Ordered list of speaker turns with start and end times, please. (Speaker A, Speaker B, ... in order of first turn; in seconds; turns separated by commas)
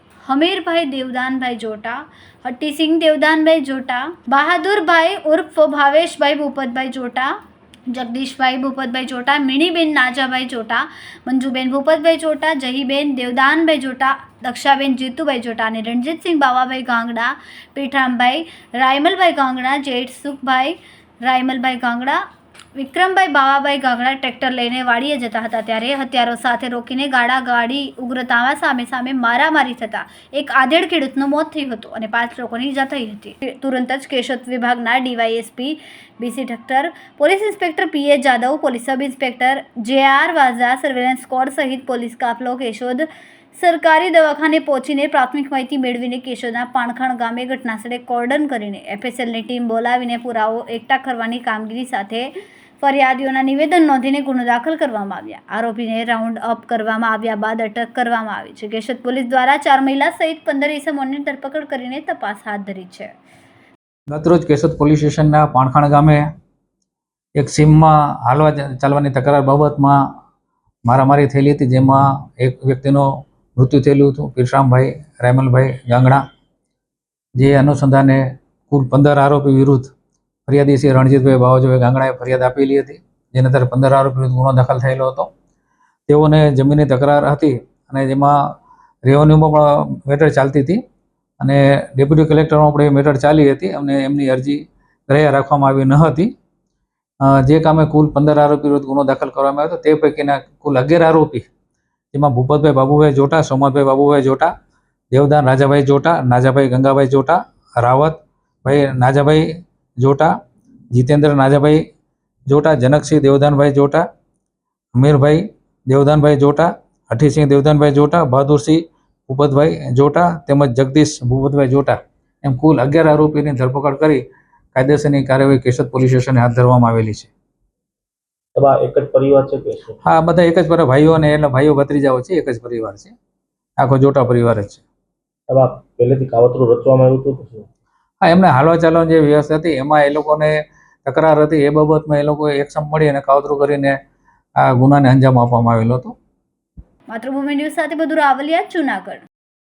Speaker A: 0.2-7.3, Speaker A: 7.9-22.2, Speaker A: 22.8-43.0, Speaker A: 43.6-52.3, Speaker A: 52.8-63.1, Speaker B: 64.1-66.3, Speaker B: 67.4-70.0, Speaker B: 70.9-76.2, Speaker B: 77.4-79.9, Speaker B: 80.5-85.3, Speaker B: 86.1-88.4, Speaker B: 89.0-90.8, Speaker B: 91.4-96.3, Speaker B: 97.2-101.5, Speaker B: 102.1-104.5, Speaker B: 105.1-109.5, Speaker B: 110.0-110.3, Speaker B: 110.9-111.8, Speaker B: 112.5-114.1, Speaker B: 115.0-124.2, Speaker B: 124.7-127.3, Speaker C: 128.6-130.0, Speaker B: 130.0-133.1, Speaker B: 133.8-134.8, Speaker C: 135.5-137.7, Speaker B: 138.2-144.0, Speaker B: 144.6-146.2, Speaker A: 147.1-149.2